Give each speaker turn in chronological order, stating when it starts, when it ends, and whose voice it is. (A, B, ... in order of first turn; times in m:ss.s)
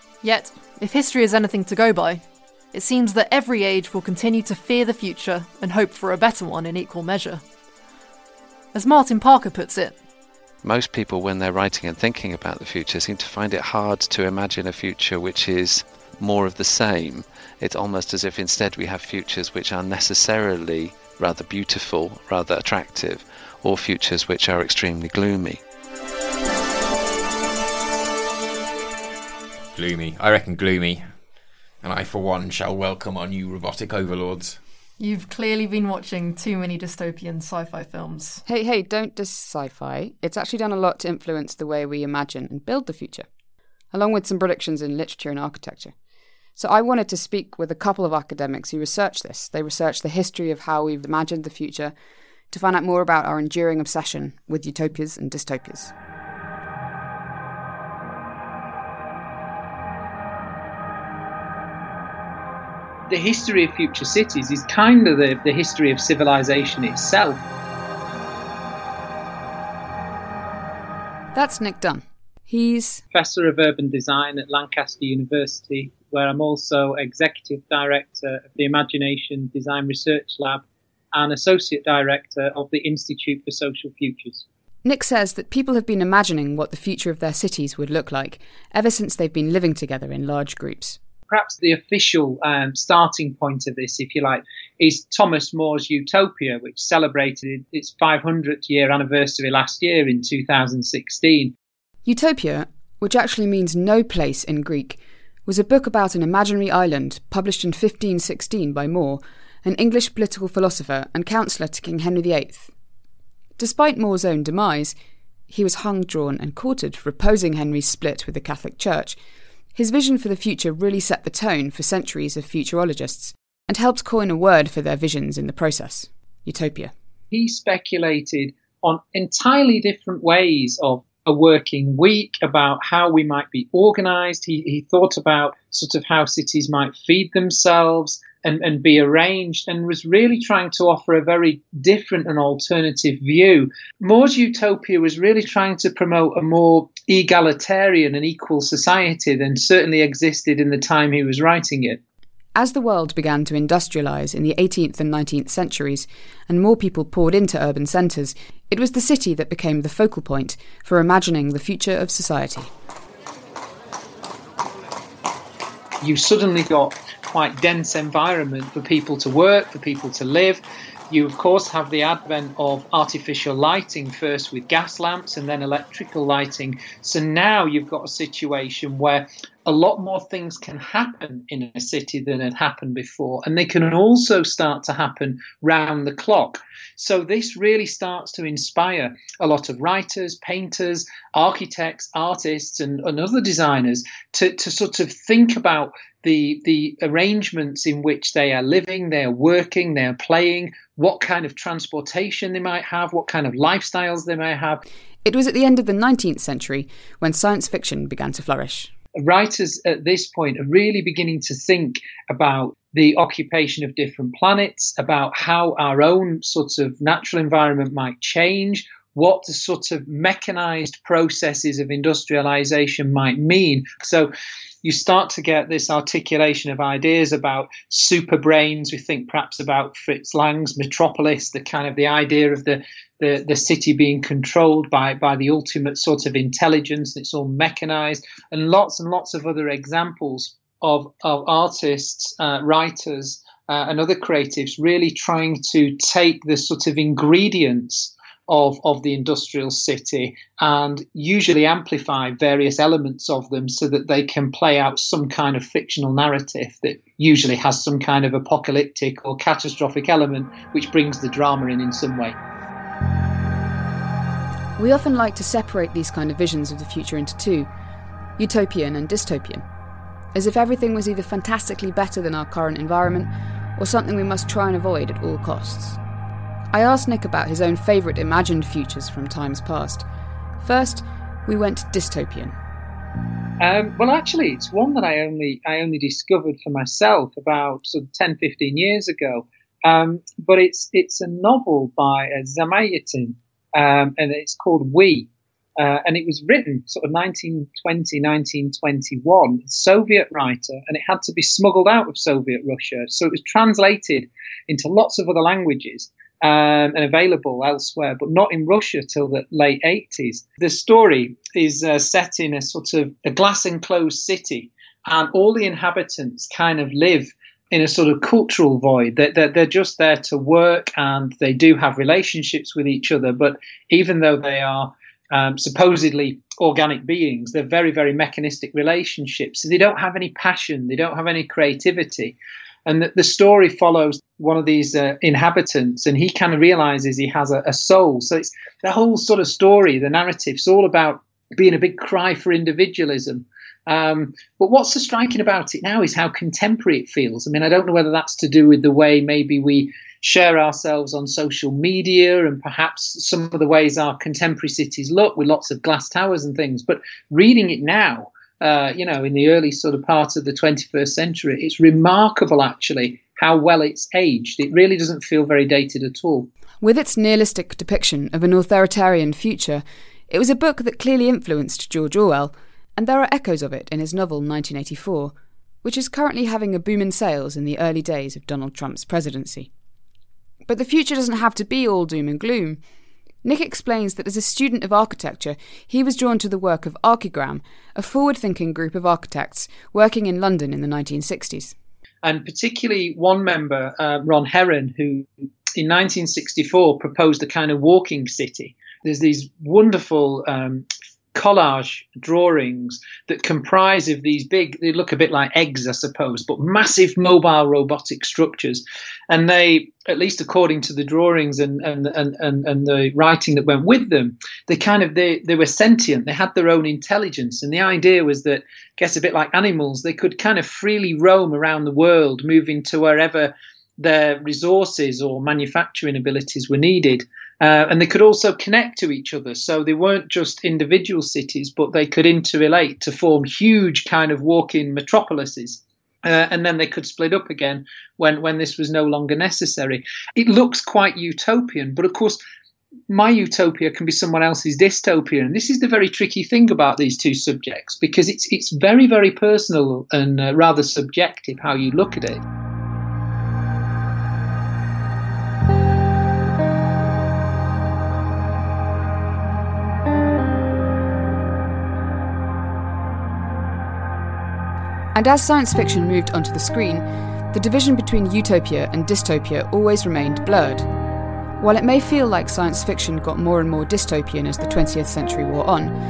0:00.2-0:07.4 A
0:08.7-0:10.0 A
0:10.6-0:25.6 B
0:29.8-0:31.1 C
0:31.8-0:34.6 C
0:35.0-0:38.4 A
0:38.5-0:43.3 D
0:43.9-0:46.0 D
0:46.6-0:51.9 D
0:52.5-0:55.9 D
1:03.1-1:07.4 E
1:11.3-1:13.0 D
1:13.1-1:24.4 E
1:24.8-1:31.0 D
1:31.3-1:41.5 E
1:42.0-1:52.7 D
1:53.6-1:55.0 D
1:55.5-1:59.2 D
1:59.8-2:06.9 D
2:07.3-2:32.0 E
2:32.6-2:42.7 D
2:46.0-3:24.8 E
3:25.2-3:28.9 D
3:29.2-3:44.3 E
3:44.8-4:22.4 E
4:24.8-4:27.7 D
4:28.4-4:29.6 D
4:30.3-4:36.0 D
4:36.7-4:40.0 D
4:40.6-4:42.6 D
4:43.6-6:06.5 E
6:06.8-6:19.7 D
6:20.6-6:22.8 D
6:23.4-6:31.8 D
6:32.2-7:22.4 E
7:23.1-7:32.4 E
7:45.1-7:50.9 D
7:51.6-7:56.0 D